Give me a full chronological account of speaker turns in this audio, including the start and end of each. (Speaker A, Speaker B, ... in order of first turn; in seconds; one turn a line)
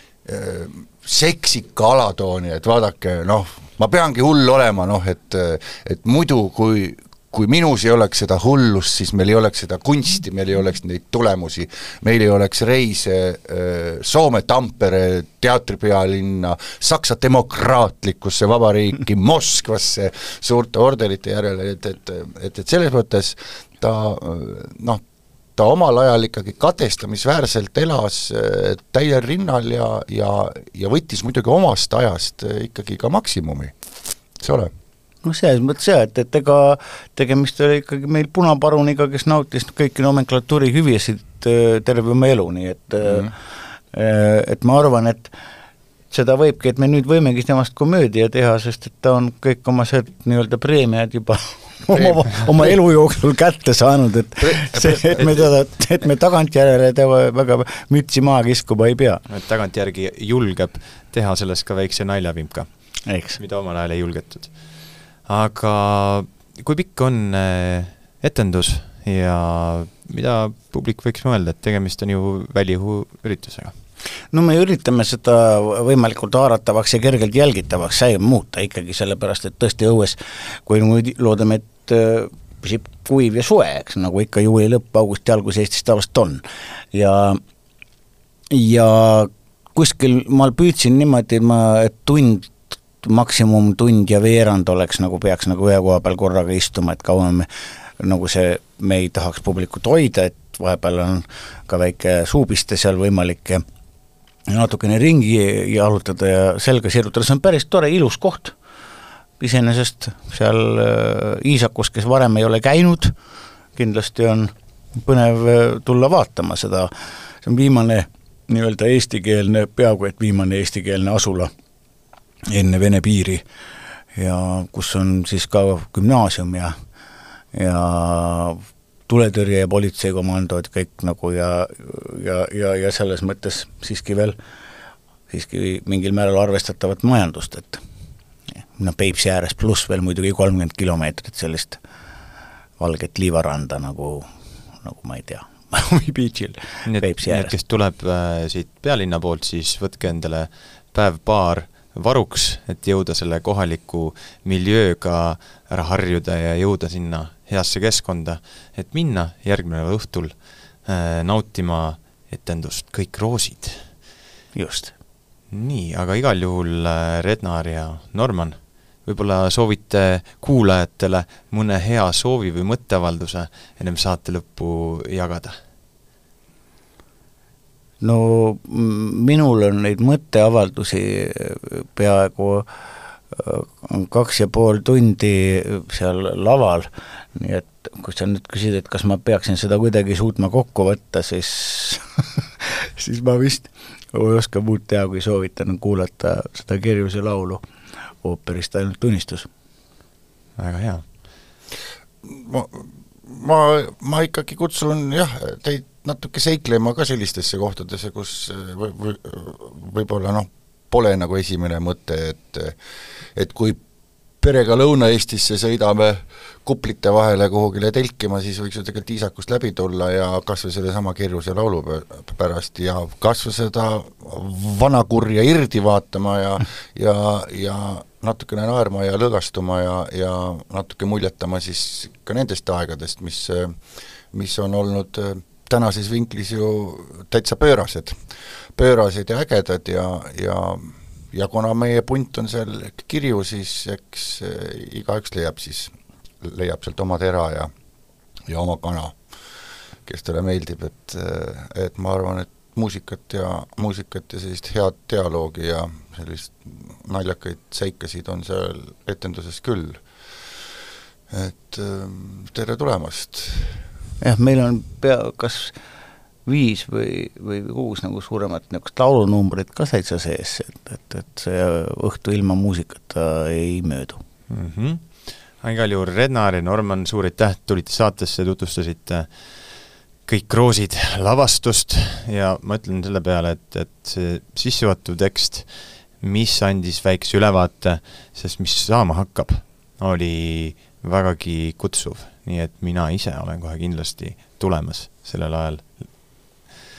Speaker A: 0.2-25.0
Speaker A: 25.6-33.7
Speaker A: 34.4-34.7
Speaker B: 35.2-43.3
Speaker B: 43.9-45.3
Speaker B: 46.1-59.2
Speaker A: 51.9-52.8
Speaker A: 54.4-55.5
Speaker C: 59.3-62.7
Speaker B: 63.1-63.4
Speaker C: 63.4-64.6
Speaker C: 65.3-73.8
Speaker B: 74.3-87.4
Speaker B: 88.5-97.5
Speaker B: 98.0-103.6
Speaker B: 104.5-108.5
Speaker B: 109.4-113.2
Speaker B: 113.8-116.9
Speaker B: 117.4-121.5
Speaker B: 122.5-123.4
Speaker B: 124.2-126.8
Speaker B: 127.5-134.4
Speaker B: 135.3-137.8
Speaker B: 138.8-141.8
Speaker B: 142.8-144.3
Speaker B: 144.8-147.5
Speaker C: 146.9-163.9
Speaker B: 164.6-164.9
Speaker C: 165.5-175.6
Speaker B: 178.0-182.7
Speaker B: 183.3-197.6
Speaker B: 198.2-199.5
Speaker C: 200.6-201.1
Speaker A: 202.2-212.8
Speaker A: 213.3-213.8
Speaker A: 214.4-233.8
Speaker A: 234.3-238.2
Speaker A: 238.8-247.7
Speaker A: 248.5-249.2
Speaker A: 250.1-260.0
Speaker A: 261.3-263.8
Speaker B: 264.2-265.8
Speaker B: 266.5-274.2
Speaker C: 274.5-296.7